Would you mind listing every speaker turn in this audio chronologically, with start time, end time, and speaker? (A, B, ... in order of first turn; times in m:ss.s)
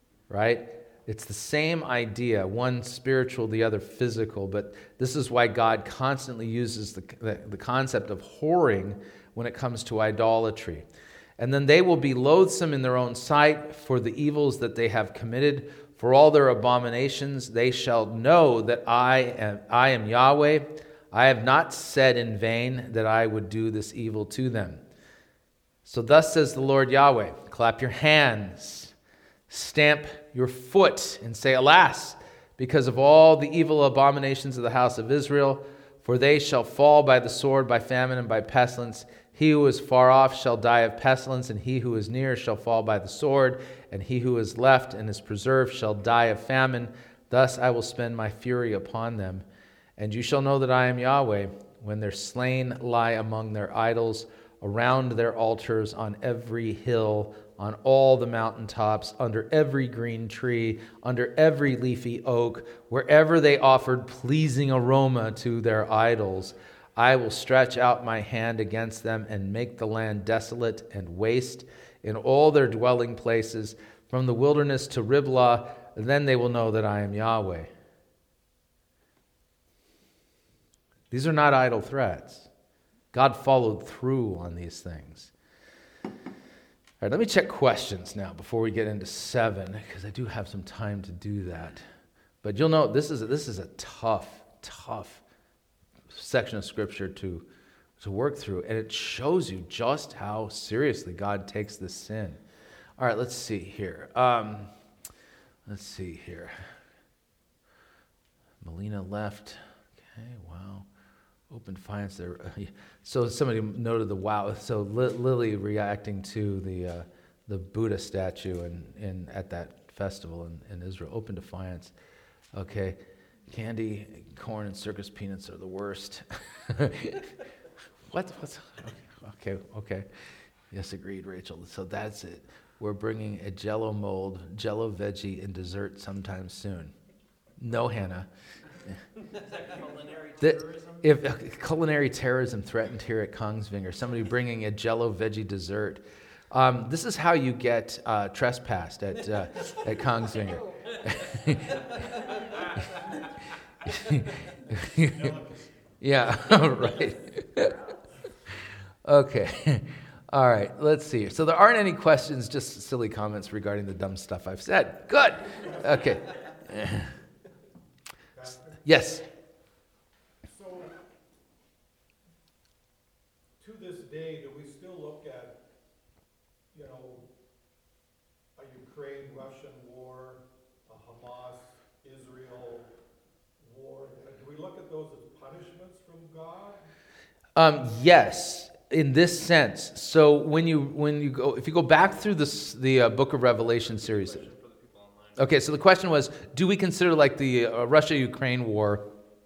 0:00.3-0:10.8 A
0:11.4-0:24.8 A
0:25.8-0:28.9 A
0:29.5-0:49.4 A
0:50.0-1:17.7 A
1:21.1-1:22.5 A
1:23.1-1:25.3 A
1:27.0-1:31.8 A
1:32.4-1:35.2 A
1:36.1-1:37.4 A
1:38.0-1:42.4 A
1:43.0-1:44.7 A
1:45.7-1:46.6 A
1:48.6-1:50.8 A
1:51.5-2:01.9 A
2:02.5-2:03.0 A
2:03.5-2:07.3 A
2:08.1-2:10.1 A
2:10.7-2:16.9 A
2:17.6-2:18.3 A
2:19.3-2:21.0 B
2:20.4-2:32.0 A
2:33.9-2:35.3 A
2:34.9-2:35.8 C
2:36.0-2:37.7 A
2:39.0-2:47.1 A
2:48.4-2:48.8 C
2:48.8-2:49.2 A
2:50.5-2:50.9 C
2:53.6-2:55.5 C
2:56.7-2:57.2 C
2:58.6-3:02.8 C
3:03.7-3:06.7 C
3:07.6-3:14.4 A
3:13.8-3:15.5 B
3:15.4-3:19.0 A